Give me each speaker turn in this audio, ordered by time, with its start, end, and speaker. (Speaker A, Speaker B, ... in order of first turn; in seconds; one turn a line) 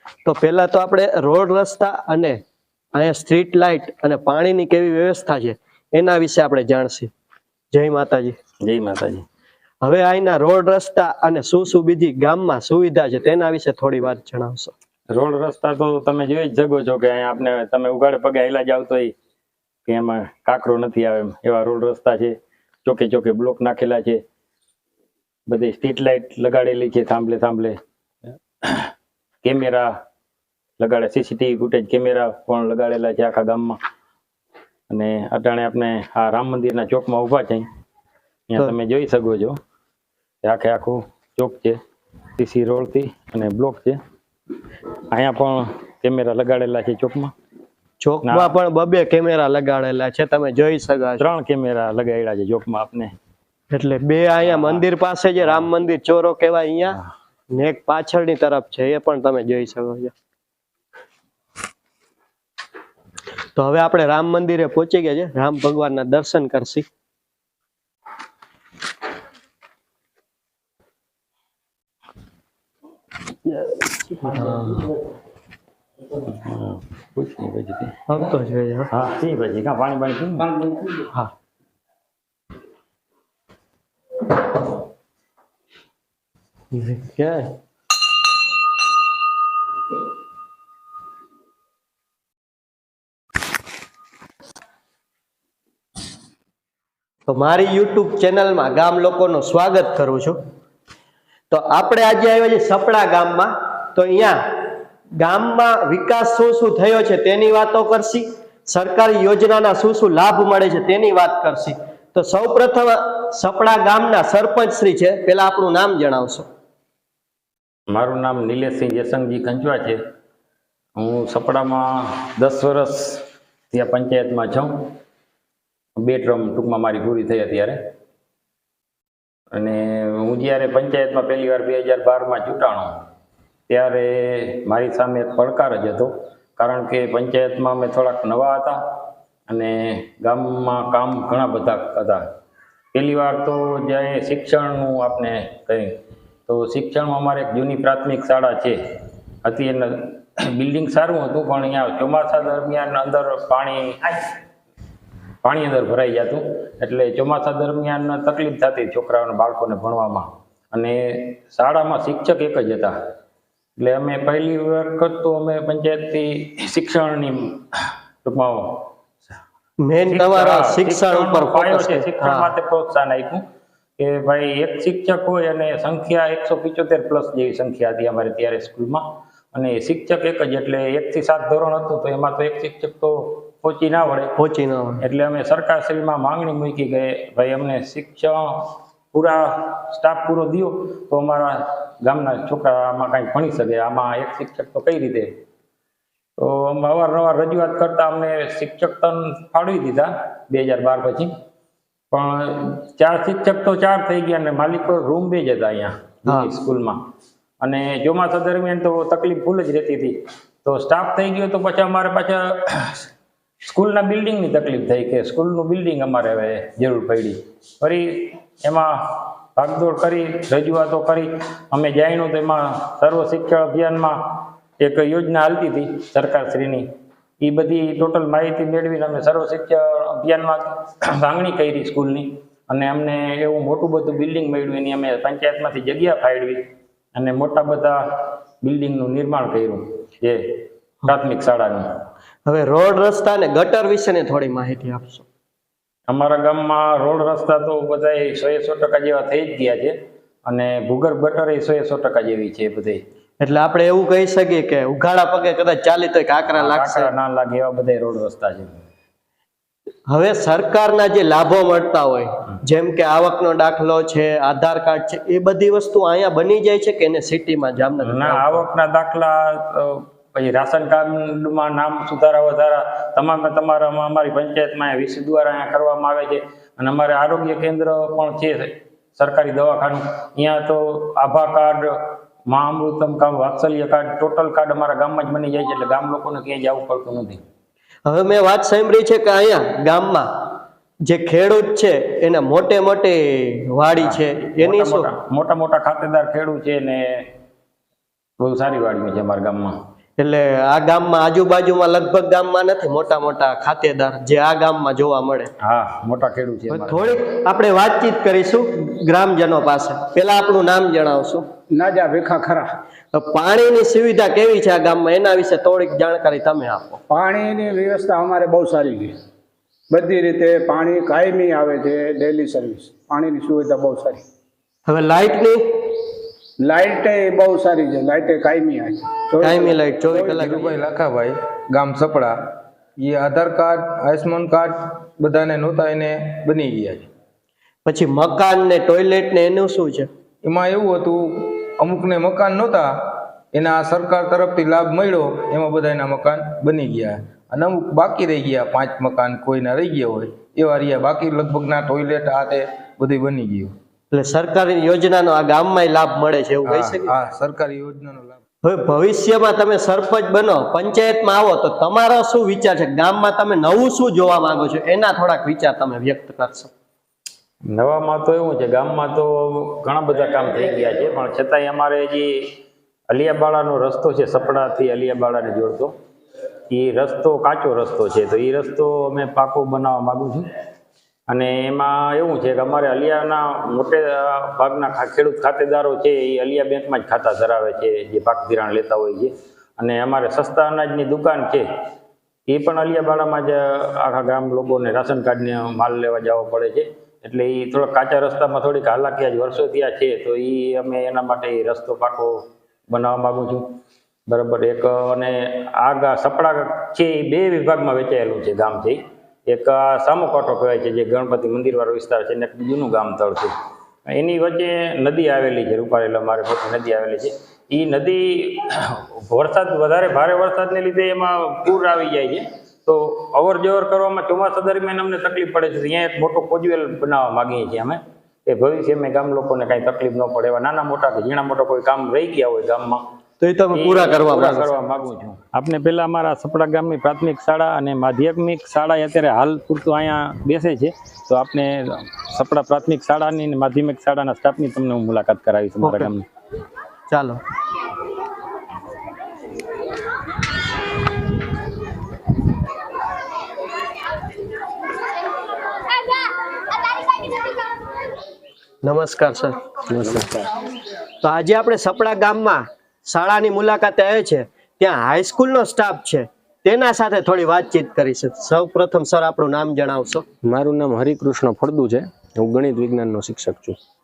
Speaker A: 0.2-2.4
Speaker A: 2.9-7.1
Speaker A: 7.7-8.3
Speaker B: 8.6-9.2
Speaker A: 9.8-14.7
Speaker B: 15.1-19.1
Speaker B: 19.9-24.2
Speaker B: 25.5-27.8
Speaker B: 28.6-28.9
Speaker B: 29.4-29.9
Speaker B: 30.8-33.8
Speaker B: 34.9-37.6
Speaker B: 38.5-39.6
Speaker B: 40.4-41.8
Speaker B: 42.4-44.0
Speaker B: 45.1-47.3
Speaker A: 48.0-51.2
Speaker B: 48.2-48.5
Speaker B: 51.2-53.1
Speaker A: 53.7-57.0
Speaker B: 54.4-54.8
Speaker A: 57.5-60.1
Speaker A: 63.5-66.9
Speaker A: 74.2-74.8
Speaker B: 76.3-78.0
Speaker A: 78.1-78.9
Speaker B: 78.9-80.5
Speaker A: 86.7-87.5
Speaker A: 97.3-100.4
Speaker A: 101.5-104.6
Speaker A: 105.2-116.5
Speaker B: 117.9-120.0
Speaker B: 121.0-124.9
Speaker B: 126.0-127.8
Speaker B: 129.5-132.9
Speaker B: 133.7-138.8
Speaker B: 139.5-142.2
Speaker B: 142.9-148.8
Speaker B: 149.4-154.2
Speaker B: 155.4-163.0
Speaker B: 163.8-168.9
Speaker A: 169.8-172.5
Speaker B: 170.1-173.4
Speaker B: 174.0-184.3
Speaker A: 184.4-185.0
Speaker B: 185.0-195.3
Speaker B: 196.4-201.3
Speaker B: 202.1-207.0
Speaker B: 207.6-213.0
Speaker B: 213.7-218.9
Speaker B: 219.6-226.9
Speaker B: 227.4-236.6
Speaker B: 237.1-240.4
Speaker B: 241.1-241.9
Speaker A: 242.4-245.2
Speaker B: 246.1-253.0
Speaker A: 253.4-257.1
Speaker B: 256.5-258.8
Speaker A: 260.1-268.6
Speaker B: 268.0-281.9
Speaker B: 282.5-287.4
Speaker A: 288.1-290.3
Speaker A: 291.1-295.1
Speaker B: 293.9-297.3
Speaker B: 298.4-299.8
Speaker A: 300.2-305.5
Speaker B: 305.6-307.2
Speaker A: 306.7-311.4
Speaker C: 311.7-312.6
Speaker A: 313.1-317.0
Speaker C: 317.1-319.1
Speaker C: 319.9-324.2
Speaker A: 324.9-325.7
Speaker C: 326.6-330.5
Speaker A: 329.4-330.7
Speaker D: 330.3-332.4
Speaker D: 333.0-337.1
Speaker A: 337.9-340.1
Speaker D: 340.4-353.7
Speaker A: 354.1-357.1
Speaker D: 356.6-358.4
Speaker A: 358.6-366.7
Speaker B: 367.7-372.5
Speaker B: 373.1-375.9
Speaker B: 376.7-380.5
Speaker B: 381.3-391.6
Speaker B: 392.5-403.7
Speaker B: 404.3-413.5
Speaker B: 414.1-433.0
Speaker A: 433.4-434.7
Speaker B: 433.7-446.2
Speaker A: 445.8-446.1
Speaker A: 447.1-447.4
Speaker A: 458.8-459.6
Speaker E: 459.9-460.4
Speaker A: 461.2-470.2
Speaker E: 470.4-473.8